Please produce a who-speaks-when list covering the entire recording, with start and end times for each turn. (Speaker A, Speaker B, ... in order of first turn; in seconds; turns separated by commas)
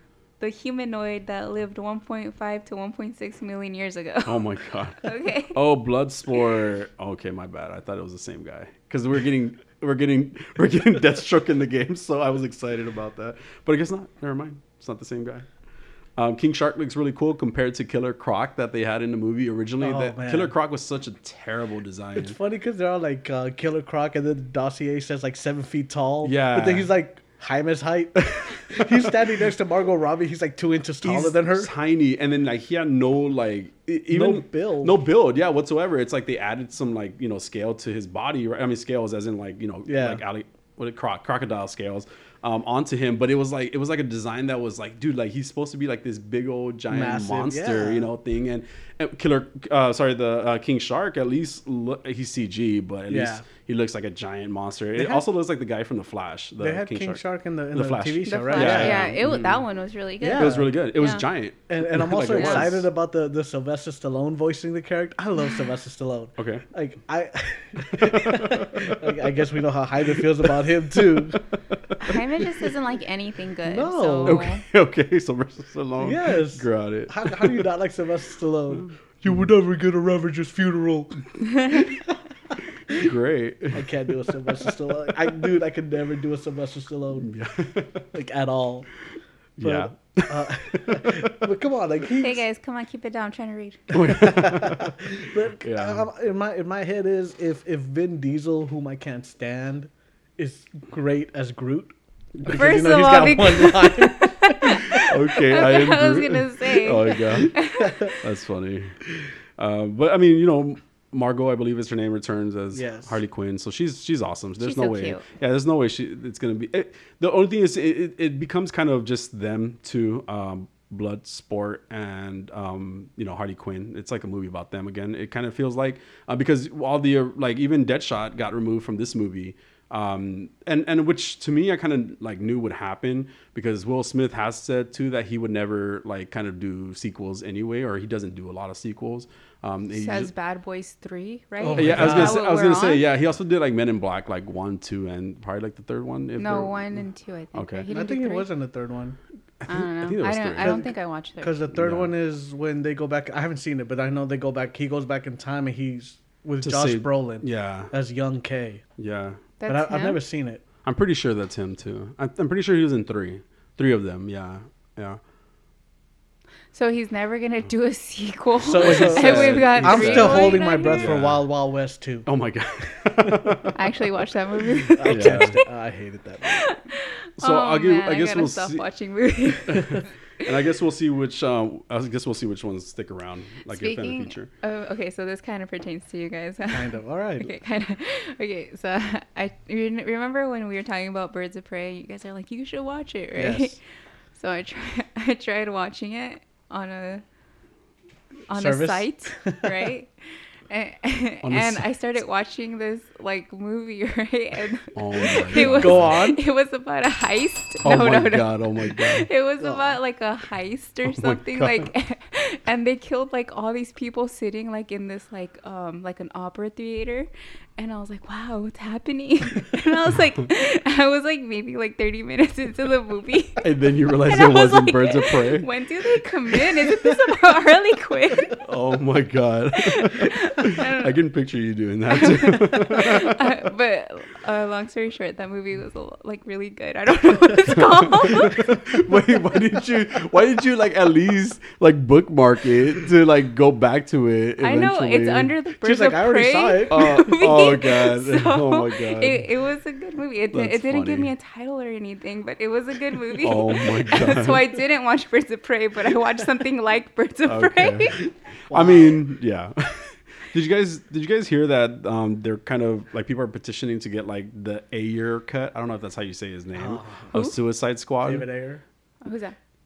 Speaker A: 0.4-5.6, Speaker B: 4.2-15.5, Speaker B: 16.2-22.4, Speaker C: 19.8-20.5, Speaker C: 22.1-31.7, Speaker B: 26.2-26.9, Speaker B: 28.2-29.1, Speaker B: 31.0-59.6, Speaker C: 34.1-35.0, Speaker C: 39.9-40.2, Speaker C: 46.9-48.1, Speaker C: 53.1-53.4, Speaker C: 55.0-55.2, Speaker C: 56.6-59.1, Speaker A: 58.2-61.2, Speaker C: 60.2-60.7, Speaker B: 60.2-62.9, Speaker C: 61.7-71.4, Speaker A: 62.3-62.6, Speaker B: 66.4-66.6, Speaker B: 67.9-69.4, Speaker B: 70.1-72.2, Speaker A: 72.0-74.6, Speaker C: 73.6-74.4, Speaker B: 74.2-77.7, Speaker C: 76.0-82.0, Speaker B: 78.7-79.3, Speaker A: 81.5-81.9, Speaker B: 82.9-84.4, Speaker C: 83.7-87.3, Speaker B: 87.2-88.1, Speaker C: 88.1-88.9, Speaker B: 89.6-91.5, Speaker C: 89.6-92.4, Speaker A: 92.2-94.0, Speaker B: 93.9-96.0, Speaker C: 93.9-104.8, Speaker A: 102.5-108.2, Speaker B: 104.9-140.3, Speaker C: 112.7-113.2, Speaker A: 114.6-115.2, Speaker A: 139.9-143.0, Speaker C: 141.6-142.4, Speaker B: 141.8-147.9, Speaker A: 146.4-148.5, Speaker C: 147.9-149.2, Speaker B: 149.6-150.8, Speaker A: 149.7-151.6, Speaker C: 150.6-158.8, Speaker B: 151.7-152.1, Speaker B: 156.6-157.9, Speaker B: 159.0-159.4, Speaker A: 159.6-160.2, Speaker C: 159.7-160.6, Speaker B: 160.8-165.2, Speaker A: 166.7-171.1, Speaker C: 168.6-172.3, Speaker B: 168.8-171.5, Speaker B: 172.2-173.8, Speaker C: 173.2-173.6, Speaker A: 173.7-175.6, Speaker C: 175.0-176.7, Speaker B: 175.0-175.6, Speaker A: 176.4-180.1, Speaker B: 177.4-178.8, Speaker B: 179.7-184.5, Speaker A: 183.7-193.8, Speaker C: 186.7-187.5, Speaker C: 193.3-193.8, Speaker A: 194.3-197.2, Speaker A: 198.5-200.1, Speaker C: 198.5-199.7, Speaker A: 200.7-228.6, Speaker B: 201.4-201.9, Speaker B: 204.9-206.2, Speaker C: 205.5-206.4, Speaker B: 207.8-209.3, Speaker C: 209.6-209.9, Speaker B: 211.1-211.9, Speaker B: 223.6-225.7, Speaker B: 228.6-233.5, Speaker A: 229.7-231.1, Speaker A: 232.1-238.8, Speaker B: 238.2-245.6, Speaker A: 244.6-258.2, Speaker C: 245.8-247.4, Speaker B: 246.9-249.5, Speaker B: 250.5-251.3, Speaker B: 253.3-254.6, Speaker B: 257.5-268.5, Speaker C: 258.7-259.2, Speaker C: 266.7-267.3, Speaker C: 268.2-268.8, Speaker A: 269.2-269.6